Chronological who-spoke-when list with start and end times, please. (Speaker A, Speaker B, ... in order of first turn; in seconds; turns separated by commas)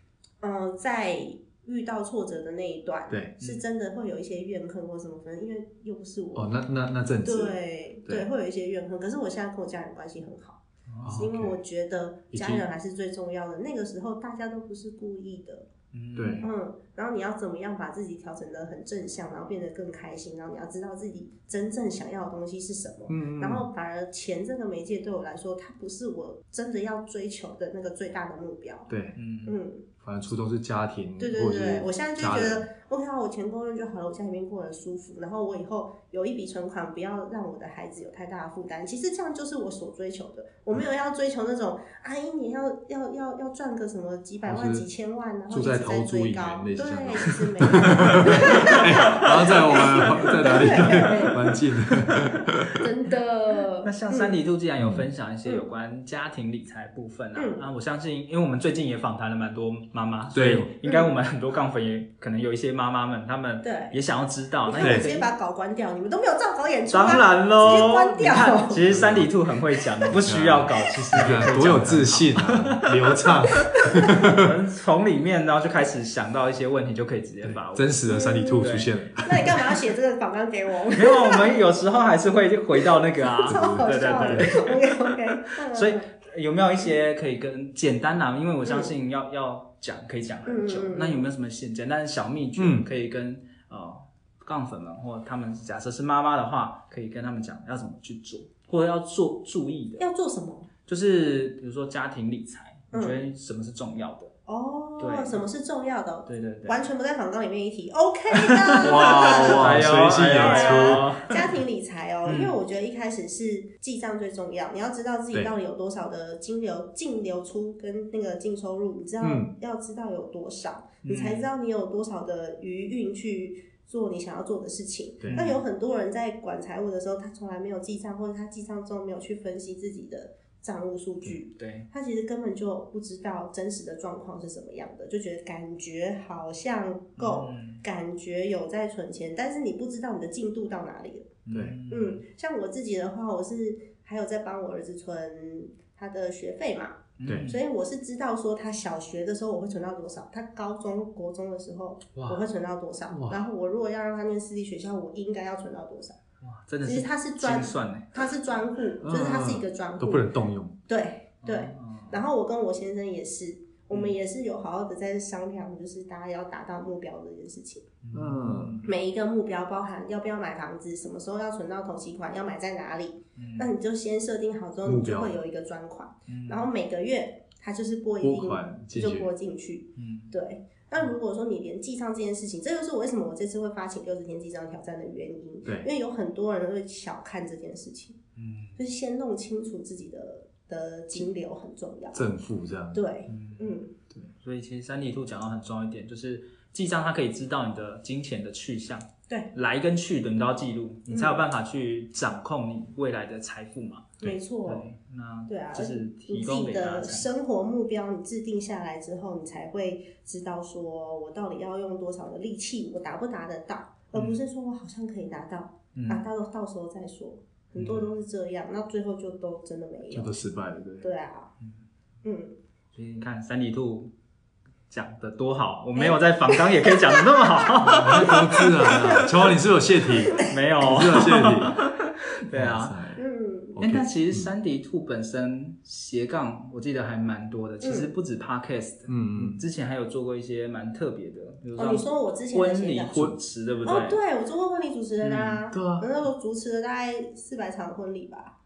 Speaker A: 0.4-6.5, Speaker B: 6.3-8.3, Speaker A: 7.2-15.7, Speaker C: 10.9-11.2, Speaker B: 11.0-11.6, Speaker B: 12.3-12.6, Speaker C: 15.9-16.5, Speaker B: 16.1-16.5, Speaker A: 16.4-28.9, Speaker B: 23.1-23.7, Speaker B: 28.9-29.1, Speaker C: 29.1-29.6, Speaker A: 29.4-29.9, Speaker B: 30.0-32.7, Speaker A: 31.2-51.5, Speaker B: 44.4-44.9, Speaker B: 45.5-52.9, Speaker C: 47.9-49.5, Speaker C: 50.2-51.3, Speaker A: 52.6-54.4, Speaker C: 53.8-65.3, Speaker B: 54.8-55.0, Speaker A: 57.3-57.6, Speaker B: 60.3-60.7, Speaker A: 63.6-64.0, Speaker A: 64.7-68.9, Speaker B: 64.8-65.1, Speaker C: 66.9-78.0, Speaker B: 68.9-69.3, Speaker B: 70.1-74.5, Speaker B: 77.4-79.7, Speaker A: 78.1-81.6, Speaker C: 78.5-78.9, Speaker C: 80.9-100.0, Speaker A: 83.2-86.0, Speaker B: 83.5-84.5, Speaker A: 88.6-88.9, Speaker A: 90.5-91.2, Speaker B: 92.6-92.9, Speaker A: 100.0-100.7, Speaker C: 100.9-104.3, Speaker A: 102.9-103.2, Speaker A: 104.5-141.3, Speaker C: 105.0-105.4, Speaker C: 106.2-106.8, Speaker C: 108.3-111.5, Speaker B: 108.8-111.1, Speaker C: 112.2-112.6, Speaker B: 119.2-119.5, Speaker C: 121.0-121.5, Speaker B: 125.2-125.5, Speaker C: 125.3-125.6, Speaker C: 131.5-131.9, Speaker C: 137.2-137.8, Speaker C: 141.4-142.2, Speaker A: 141.9-156.2, Speaker C: 147.2-147.6, Speaker B: 152.1-152.5, Speaker B: 153.1-153.4, Speaker C: 156.4-158.2, Speaker A: 156.8-160.3, Speaker B: 159.0-160.7, Speaker A: 160.9-167.8, Speaker C: 161.4-162.2, Speaker C: 168.0-168.9, Speaker B: 168.1-168.8, Speaker A: 168.8-188.2, Speaker C: 173.3-173.7, Speaker B: 174.8-175.4, Speaker C: 176.3-176.7, Speaker B: 178.2-179.3, Speaker C: 179.9-180.3, Speaker B: 185.6-185.9, Speaker C: 188.3-188.8, Speaker A: 188.8-192.2, Speaker B: 192.1-193.0, Speaker A: 192.9-193.9, Speaker C: 193.3-193.8, Speaker C: 194.4-207.3, Speaker A: 201.1-201.4, Speaker A: 204.2-204.8, Speaker A: 205.5-220.3, Speaker C: 214.1-214.4, Speaker C: 215.9-216.2, Speaker C: 217.8-218.1, Speaker B: 220.1-221.1, Speaker A: 221.0-221.5, Speaker A: 222.2-222.5, Speaker C: 222.9-224.1, Speaker C: 224.9-229.3, Speaker A: 225.9-226.9, Speaker B: 227.8-231.8, Speaker A: 227.9-228.4, Speaker C: 230.4-233.2, Speaker B: 232.5-233.2, Speaker A: 233.2-233.8, Speaker B: 233.8-234.5, Speaker C: 233.8-244.2, Speaker A: 237.8-238.1, Speaker B: 239.1-239.6, Speaker A: 241.8-243.3, Speaker A: 243.8-248.5, Speaker C: 245.2-245.6, Speaker B: 245.7-246.1